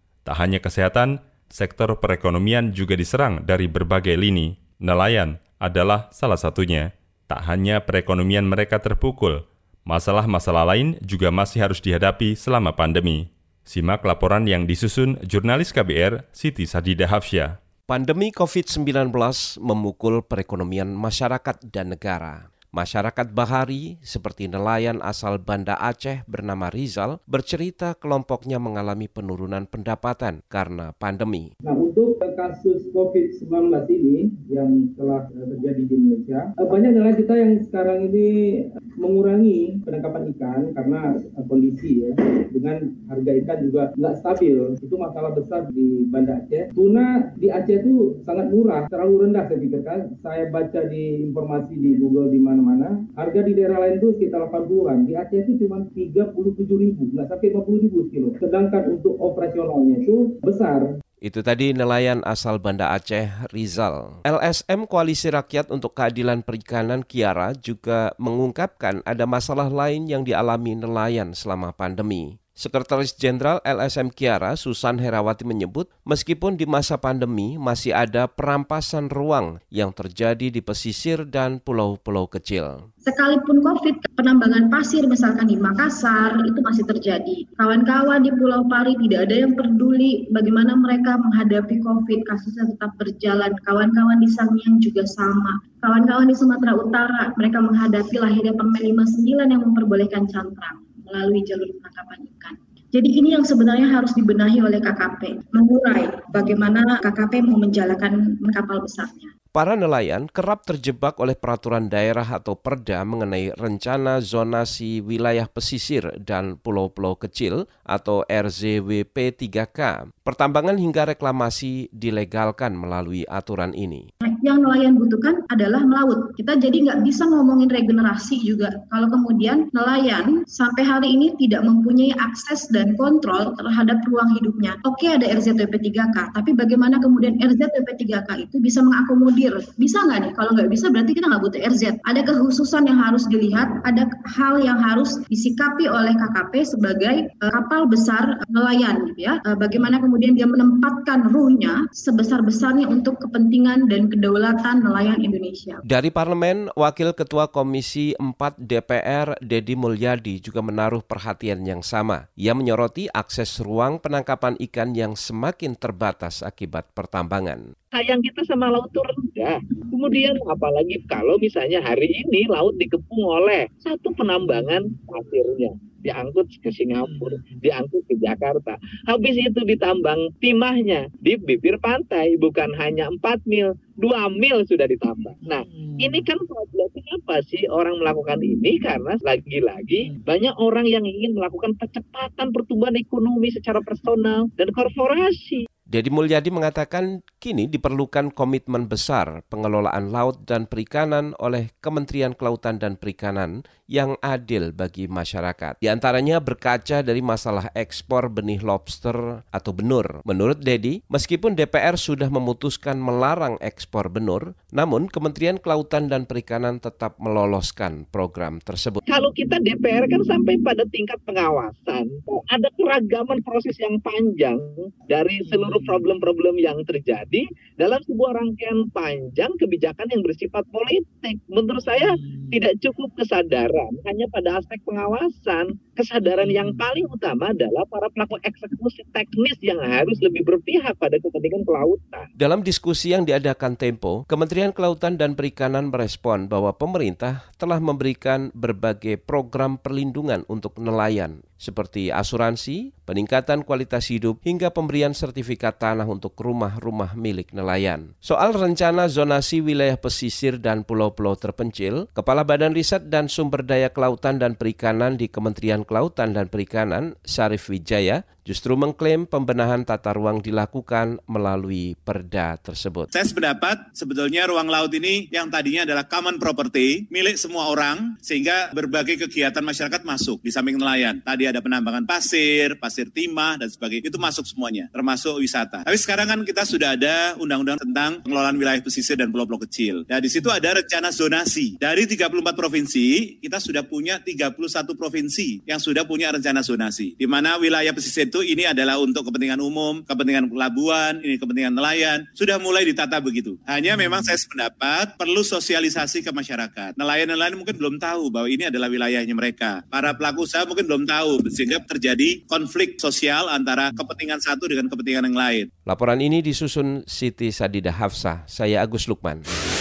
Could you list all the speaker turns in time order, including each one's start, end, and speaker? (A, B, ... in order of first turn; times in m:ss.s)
0:00.2-0:17.6 A
0:17.9-0:31.5 B
0:31.6-1:00.8 C
1:01.2-1:22.8 B
1:23.0-1:49.3 D
1:49.5-2:04.0 B
2:04.2-2:35.8 D
2:35.9-2:47.6 B
2:47.9-3:15.7 E
3:15.9-3:39.0 B
3:39.1-4:02.3 E
4:02.4-4:33.1 B
4:33.1-5:15.7 F
5:15.8-5:19.4 B